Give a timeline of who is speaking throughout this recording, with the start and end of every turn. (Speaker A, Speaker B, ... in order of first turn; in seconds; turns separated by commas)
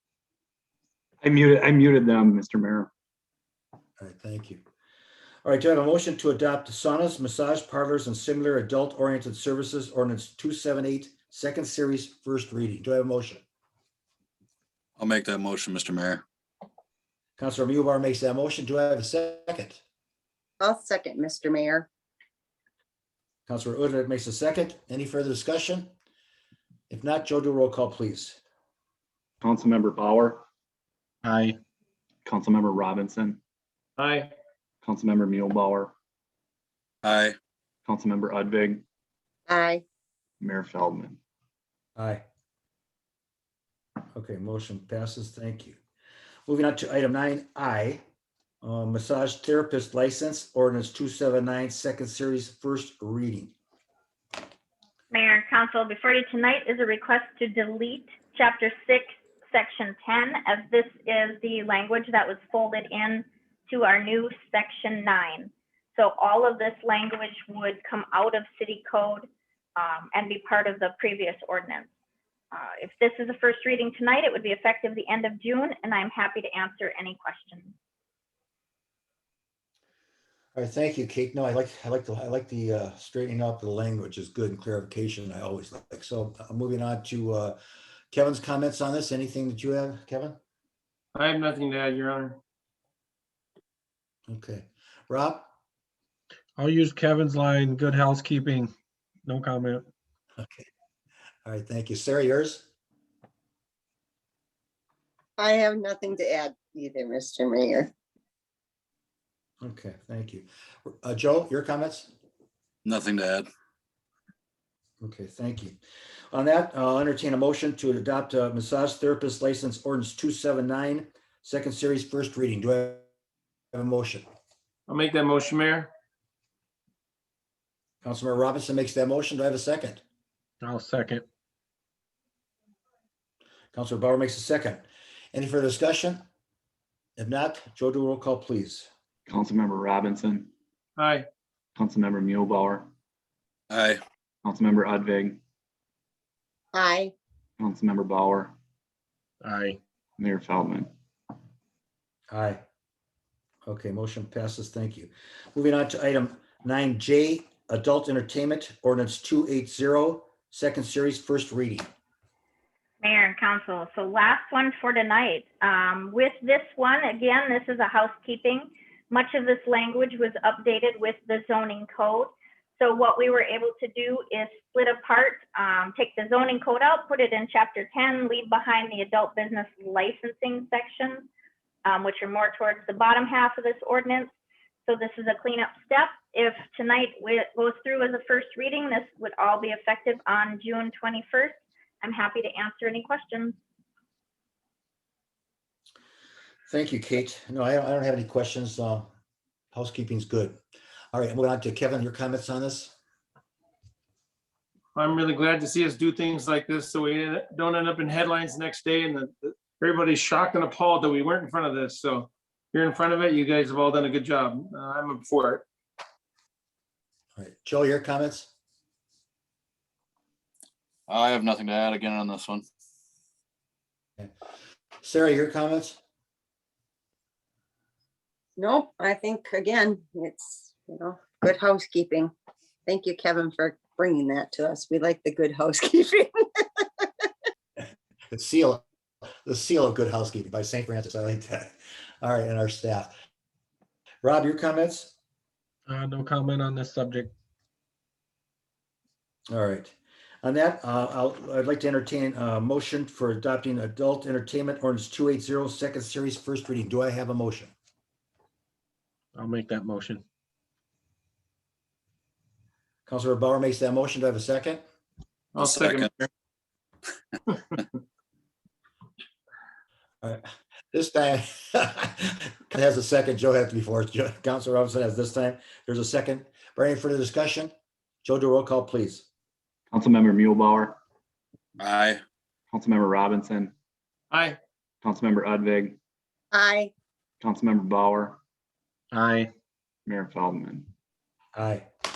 Speaker A: 1.2-2.9, Speaker B: 4.0-4.6, Speaker B: 5.4-13.4, Speaker C: 15.0-16.2, Speaker B: 17.4-19.8, Speaker D: 20.6-21.9, Speaker B: 23.5-25.9, Speaker B: 26.9-28.4, Speaker A: 29.4-30.4, Speaker E: 31.2-31.6, Speaker A: 32.3-33.4, Speaker F: 34.0-34.3, Speaker A: 34.8-35.9, Speaker C: 37.0-37.4, Speaker A: 37.9-38.8, Speaker D: 39.5-39.8, Speaker A: 40.4-41.2, Speaker B: 42.0-42.2, Speaker B: 44.1-45.8, Speaker B: 46.5-48.0, Speaker B: 48.6-53.5, Speaker G: 55.1-71.9, Speaker G: 72.5-77.7, Speaker B: 80.5-87.6, Speaker B: 88.1-90.4, Speaker F: 91.1-92.4, Speaker B: 94.3-95.5, Speaker E: 96.6-98.7, Speaker E: 99.2-99.8, Speaker B: 100.4-100.7, Speaker B: 101.5-102.7, Speaker D: 105.4-107.9, Speaker B: 109.6-112.1, Speaker C: 112.8-113.5, Speaker B: 115.0-115.8, Speaker B: 116.3-123.1, Speaker B: 123.7-124.2, Speaker F: 124.9-125.9, Speaker B: 128.0-130.0, Speaker E: 130.6-131.2, Speaker B: 133.7-136.2, Speaker B: 137.2-138.9, Speaker A: 139.3-140.5, Speaker F: 141.0-141.3, Speaker A: 141.8-142.9, Speaker C: 143.7-144.0, Speaker A: 144.4-145.4, Speaker D: 146.7-147.1, Speaker A: 147.6-148.6, Speaker E: 149.4-149.8, Speaker A: 150.2-150.9, Speaker B: 152.3-152.6, Speaker B: 153.7-161.9, Speaker G: 163.0-181.3, Speaker G: 181.8-184.3, Speaker G: 184.8-193.6, Speaker B: 196.7-199.1, Speaker B: 199.7-200.6, Speaker B: 201.1-202.9, Speaker F: 204.9-215.7, Speaker B: 217.4-218.5, Speaker C: 221.1-222.7, Speaker B: 225.0-226.0, Speaker D: 228.6-232.3, Speaker D: 232.9-237.1, Speaker B: 238.3-238.8, Speaker B: 239.4-243.1, Speaker B: 244.2-245.1, Speaker E: 245.9-247.3, Speaker B: 249.5-257.7, Speaker E: 259.3-260.2, Speaker B: 263.1-264.8, Speaker F: 265.5-266.1, Speaker C: 265.6-266.2, Speaker B: 270.2-277.7, Speaker B: 278.2-279.2, Speaker A: 279.9-281.0, Speaker C: 281.8-282.2, Speaker A: 282.7-283.7, Speaker F: 284.3-284.6, Speaker A: 285.0-286.0, Speaker D: 286.5-286.9, Speaker A: 287.4-288.4, Speaker E: 289.1-289.5, Speaker A: 290.1-290.9, Speaker B: 291.5-291.9